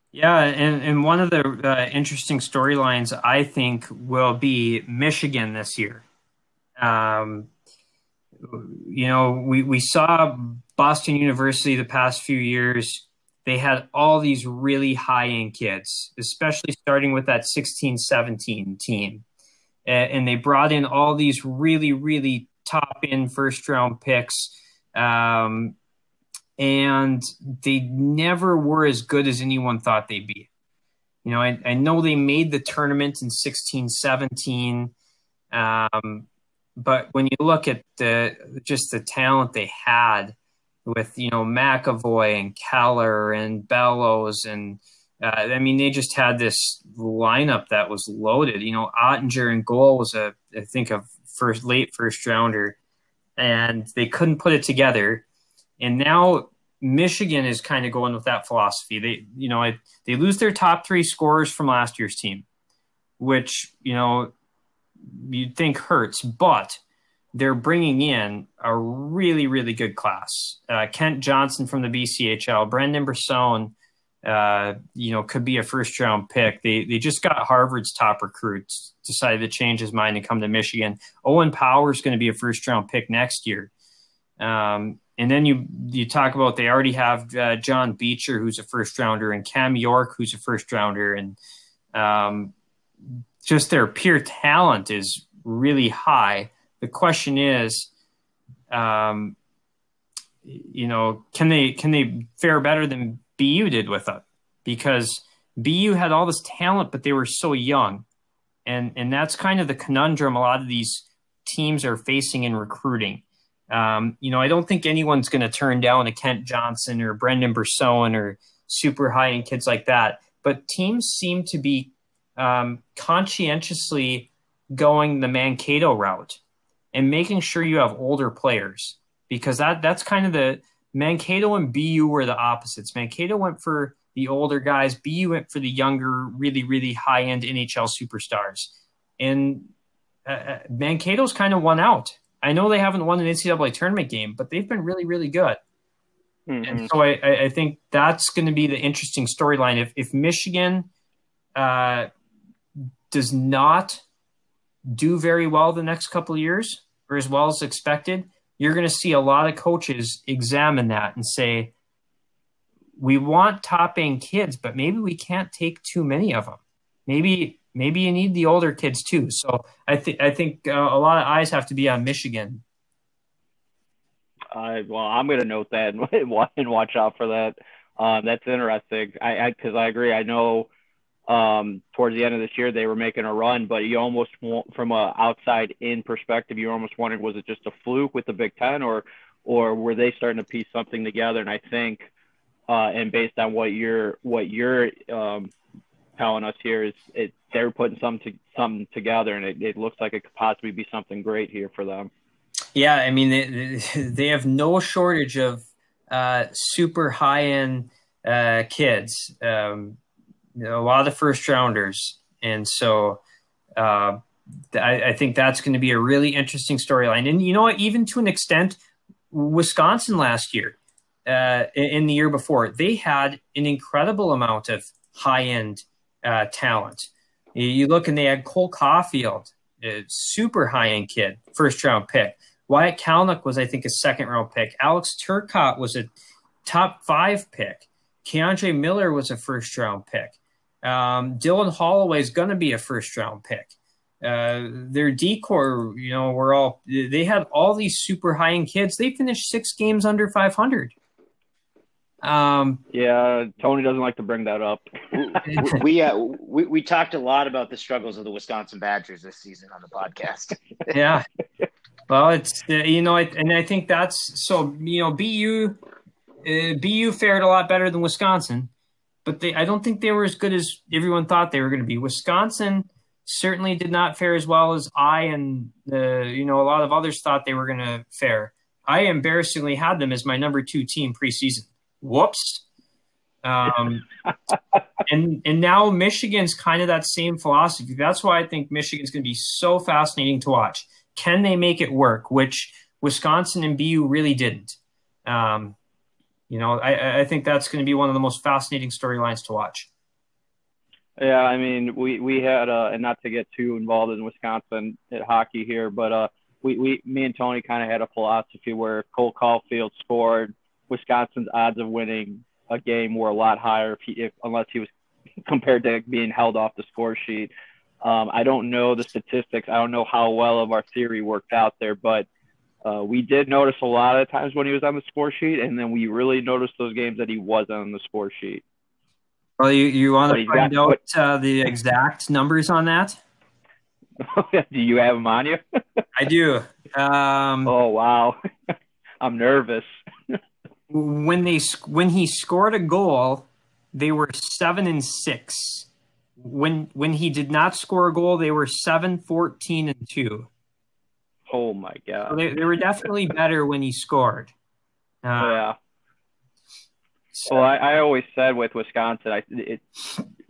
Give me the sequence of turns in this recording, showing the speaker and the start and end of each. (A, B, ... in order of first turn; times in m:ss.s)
0:00.1-0:06.0 A
0:06.8-0:07.5 A
0:08.4-0:19.2 A
0:19.8-0:25.8 A
0:26.6-0:30.5 A
0:31.2-0:34.9 A
0:35.5-0:40.4 A
0:40.9-0:52.8 A
0:53.4-0:55.2 A
0:55.8-1:02.4 A
1:03.2-1:04.3 A
1:05.1-1:06.8 A
1:07.3-1:13.7 A
1:14.2-1:23.7 A
1:24.4-1:31.4 A
1:31.9-1:32.5 A
1:33.4-1:37.9 A
1:38.7-1:39.4 A
1:40.4-1:48.0 A
1:48.7-2:06.4 A
2:06.9-2:19.7 A
2:20.3-2:25.6 A
2:26.5-2:26.9 B
2:26.6-2:30.9 A
2:31.6-2:32.1 A
2:33.1-2:34.0 A
2:34.9-2:41.7 A
2:43.0-2:52.6 A
2:54.5-3:00.7 B
3:01.3-3:12.1 B
3:12.7-3:15.5 B
3:16.2-3:22.1 B
3:22.8-3:30.0 A
3:30.6-3:33.2 A
3:33.8-3:34.2 A
3:34.7-3:38.8 A
3:39.3-3:56.1 A
3:56.6-4:03.7 A
4:04.2-4:10.9 A
4:12.2-4:12.8 A
4:12.9-4:15.8 B
4:15.2-4:20.6 C
4:15.5-4:15.8 A
4:20.9-4:21.2 A
4:22.1-4:25.8 A
4:26.4-4:28.7 A
4:29.2-4:42.6 A
4:43.4-4:44.1 A
4:43.7-4:44.8 B
4:45.1-4:55.8 A
4:56.5-4:59.9 A
5:01.2-5:14.9 B
5:15.5-5:17.5 B
5:18.0-5:22.3 B
5:22.8-5:28.6 B
5:29.6-5:33.2 A
5:30.3-5:31.0 B
5:34.2-5:36.0 B
5:36.2-5:37.7 A
5:37.7-5:40.4 B
5:40.9-5:45.9 A
5:46.4-5:50.5 A
5:51.5-5:52.4 B
5:52.3-5:54.5 A
5:55.2-5:55.6 A
5:55.4-5:55.8 B
5:57.5-6:00.2 B